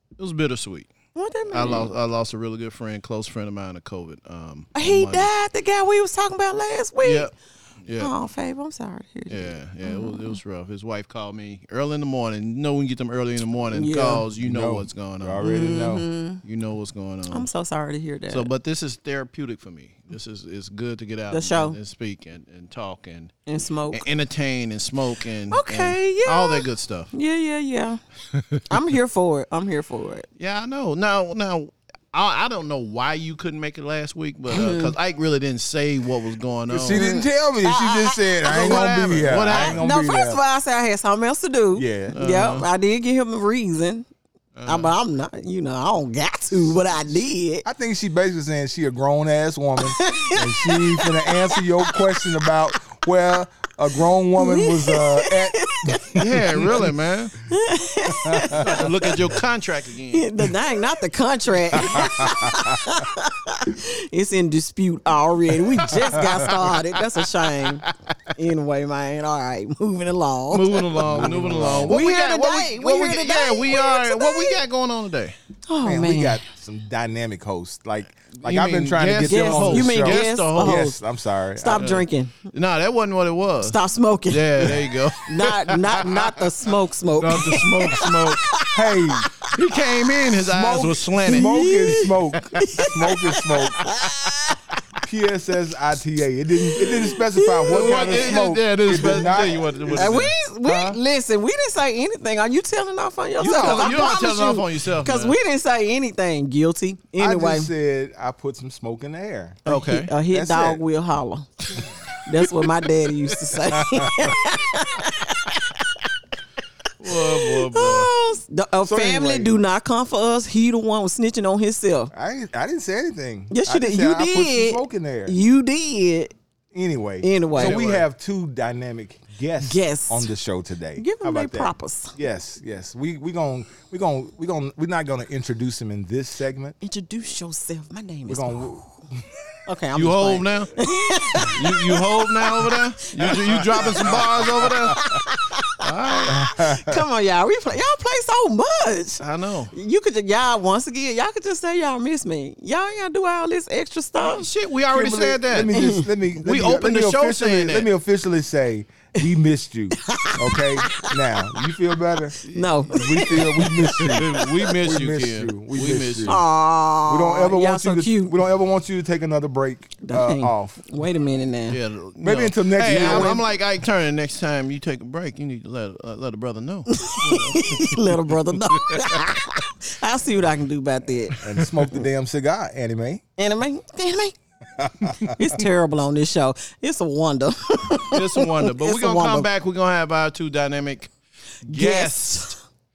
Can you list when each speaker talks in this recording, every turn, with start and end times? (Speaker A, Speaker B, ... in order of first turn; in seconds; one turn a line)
Speaker A: 0.2-0.9
Speaker B: 1.1-1.9
Speaker A: 1.5-5.3
Speaker B: 4.8-7.3
Speaker A: 7.0-7.3
Speaker A: 7.8-8.1
Speaker B: 8.0-10.4
Speaker A: 9.3-15.4
Speaker B: 13.7-14.2
Speaker C: 14.4-16.1
Speaker B: 15.4-16.4
Speaker A: 16.4-17.5
Speaker B: 17.3-18.5
Speaker A: 18.3-23.4
Speaker B: 21.3-21.8
Speaker B: 23.5-24.1
Speaker A: 23.9-27.1
Speaker B: 25.5-28.0
Speaker A: 28.3-28.6
Speaker B: 28.7-30.3
Speaker A: 30.4-37.3
Speaker B: 34.5-34.9
Speaker C: 36.7-40.4
Speaker B: 37.6-38.9
Speaker A: 38.4-39.8
Speaker B: 39.5-44.1
Speaker C: 41.8-42.1
Speaker A: 42.1-42.7
Speaker A: 44.6-44.9
Speaker B: 44.7-47.7
Speaker C: 47.6-56.9
Speaker B: 49.9-52.0
Speaker B: 54.4-56.2
Speaker A: 56.1-57.4
Speaker B: 57.5-58.9
Speaker C: 58.0-58.9
Speaker A: 58.5-60.3
Speaker B: 60.1-71.3
Speaker C: 61.7-63.0
Speaker A: 65.9-66.8
Speaker C: 66.2-66.5
Speaker A: 67.6-67.9
Speaker A: 70.5-75.3
Speaker C: 71.0-72.0
Speaker B: 71.9-74.6
Speaker B: 75.7-76.4
Speaker C: 75.8-81.9
Speaker A: 78.4-80.9
Speaker B: 79.2-81.0
Speaker B: 81.6-82.3
Speaker A: 81.7-83.8
Speaker B: 83.6-89.5
Speaker A: 84.3-86.3
Speaker A: 87.2-88.4
Speaker C: 88.7-89.3
Speaker A: 89.4-92.6
Speaker C: 90.4-93.9
Speaker B: 91.3-94.6
Speaker A: 94.0-94.6
Speaker C: 95.0-101.0
Speaker B: 96.7-98.3
Speaker A: 97.7-100.3
Speaker B: 99.9-107.7
Speaker A: 103.4-105.4
Speaker C: 103.4-104.2
Speaker C: 107.2-109.6
Speaker A: 109.7-110.1
Speaker B: 109.7-115.8
Speaker C: 110.3-110.8
Speaker A: 113.3-113.6
Speaker C: 113.9-114.3
Speaker A: 117.0-118.1
Speaker B: 117.1-122.1
Speaker C: 118.8-119.5
Speaker C: 122.1-125.4
Speaker B: 123.5-126.3
Speaker C: 126.7-136.8
Speaker B: 127.2-127.8
Speaker A: 127.5-128.0
Speaker B: 129.6-130.3
Speaker B: 131.0-132.1
Speaker B: 136.8-138.9
Speaker C: 138.3-139.2
Speaker B: 139.7-144.2
Speaker A: 139.9-140.8
Speaker A: 141.4-145.1
Speaker C: 143.2-144.0
Speaker B: 144.9-154.5
Speaker A: 145.8-146.4
Speaker C: 146.3-147.0
Speaker A: 149.2-149.7
Speaker A: 154.2-157.9
Speaker C: 154.9-162.4
Speaker B: 155.7-156.1
Speaker B: 160.0-161.1
Speaker B: 162.4-164.0
Speaker A: 162.5-166.4
Speaker C: 162.9-166.4
Speaker B: 166.3-168.3
Speaker C: 167.1-170.8
Speaker B: 170.0-171.8
Speaker A: 171.7-178.2
Speaker C: 172.2-173.4
Speaker B: 173.0-173.3
Speaker B: 176.9-181.4
Speaker A: 178.7-179.3
Speaker C: 181.4-183.2
Speaker B: 183.4-184.4
Speaker C: 184.8-185.4
Speaker B: 185.2-189.5
Speaker A: 188.1-191.1
Speaker A: 191.6-192.6
Speaker B: 191.7-192.6